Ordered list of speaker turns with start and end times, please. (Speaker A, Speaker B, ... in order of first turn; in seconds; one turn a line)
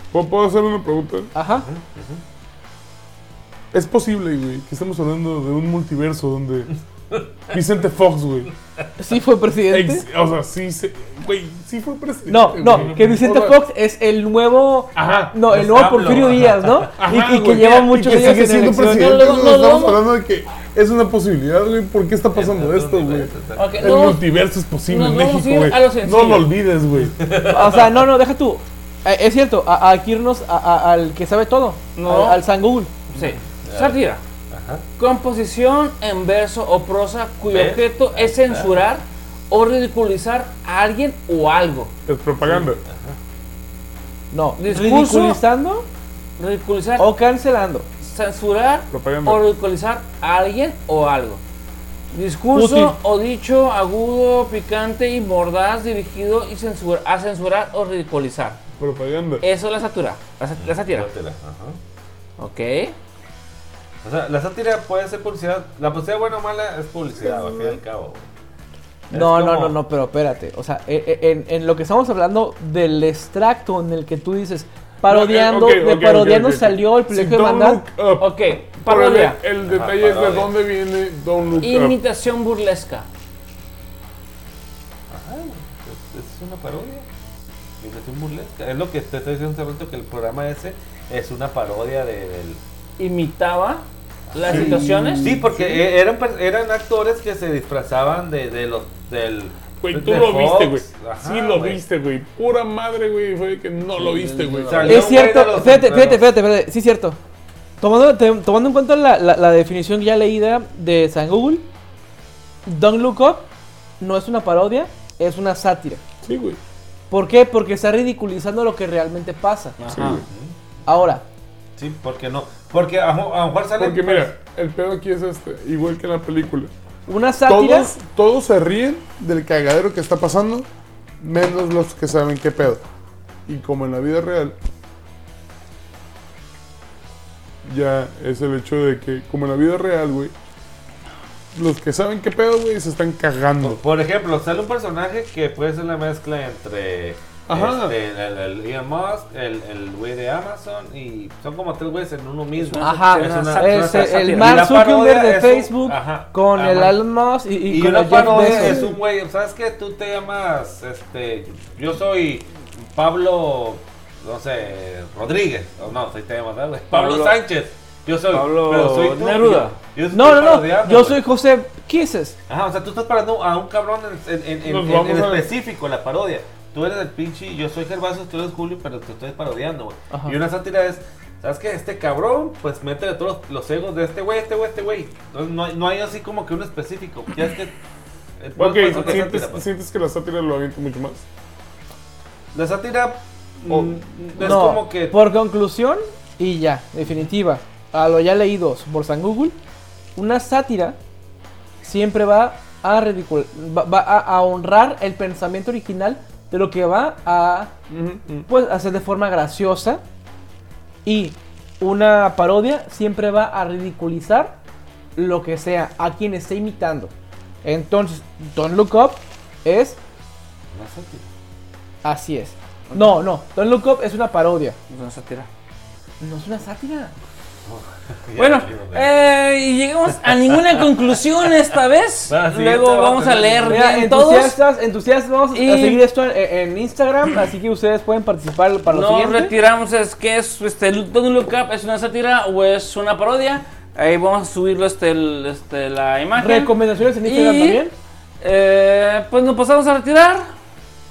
Speaker A: 0.1-1.3
Speaker B: 1.3-1.7
Speaker C: 1.6-2.2
Speaker A: 3.7-6.7
Speaker A: 7.5-8.5
Speaker B: 9.0-10.0
Speaker A: 9.7-13.6
Speaker B: 12.3-19.2
Speaker C: 12.6-13.2
Speaker A: 14.9-15.3
Speaker C: 15.4-16.9
Speaker A: 17.0-27.1
Speaker D: 17.6-20.0
Speaker C: 22.3-24.0
Speaker D: 23.5-24.3
Speaker D: 24.9-26.5
Speaker C: 27.0-27.9
Speaker B: 27.4-32.9
Speaker D: 31.9-32.4
Speaker D: 33.1-34.2
Speaker C: 33.1-34.0
Speaker C: 34.5-34.8
Speaker D: 35.0-41.9
Speaker C: 37.5-38.8
Speaker A: 42.0-42.8
Speaker C: 42.4-43.2
Speaker B: 44.3-45.9
Speaker D: 44.6-45.4
Speaker D: 46.4-47.1
Speaker B: 47.0-47.9
Speaker D: 48.0-51.4
Speaker A: 48.9-49.4
Speaker D: 52.1-58.6
Speaker B: 52.5-53.0
Speaker A: 58.8-59.4
Speaker D: 59.4-61.1
Speaker C: 60.6-61.8
Speaker D: 62.4-62.9
Speaker C: 64.0-68.3
Speaker D: 69.1-69.7
Speaker B: 69.1-77.8
Speaker A: 75.0-82.0
Speaker D: 78.2-79.4
Speaker C: 79.6-80.5
Speaker D: 81.6-83.1
Speaker C: 85.1-87.1
Speaker C: 87.8-92.6
Speaker D: 93.0-95.4
Speaker C: 94.3-101.8
Speaker A: 94.4-95.3
Speaker B: 94.5-95.8
Speaker A: 99.8-105.0
Speaker D: 104.0-105.2
Speaker C: 104.6-106.3
Speaker B: 104.8-107.2
Speaker B: 107.8-111.7
Speaker B: 112.7-113.5
Speaker B: 114.0-116.0
Speaker A: 116.2-116.6
Speaker B: 117.1-119.8
Speaker D: 119.8-120.2
Speaker A: 119.9-120.2
Speaker C: 120.0-120.5
Speaker B: 120.8-121.2
Speaker C: 121.8-124.3
Speaker A: 123.8-126.7
Speaker B: 127.1-127.9
Speaker A: 127.5-130.7
Speaker A: 131.2-132.8
Speaker A: 133.5-134.6
Speaker A: 137.6-140.3
Speaker A: 141.5-143.8
Speaker C: 143.6-157.0
Speaker A: 147.5-147.9
Speaker D: 152.6-154.7
Speaker B: 152.8-158.9
Speaker C: 157.7-171.2
Speaker D: 158.1-158.9
Speaker D: 166.9-167.4
Speaker D: 168.3-169.8
Speaker B: 170.1-172.4
Speaker C: 172.5-187.7
Speaker A: 174.6-175.5
Speaker C: 188.4-189.6
Speaker A: 188.6-191.2
Speaker C: 192.5-195.2
Speaker B: 193.6-199.6
Speaker B: 200.2-201.0
Speaker B: 201.8-207.7
Speaker A: 207.9-208.5
Speaker B: 208.5-210.0
Speaker B: 211.0-214.6
Speaker B: 215.2-217.1
Speaker B: 217.6-220.0
Speaker C: 220.7-221.3
Speaker B: 222.0-224.8
Speaker D: 224.9-225.5
Speaker B: 226.2-227.1
Speaker C: 227.7-229.1
Speaker D: 228.3-234.6
Speaker C: 232.3-233.9
Speaker B: 233.7-239.5
Speaker D: 235.5-236.0
Speaker D: 238.9-247.8
Speaker B: 246.3-247.9
Speaker D: 248.4-250.5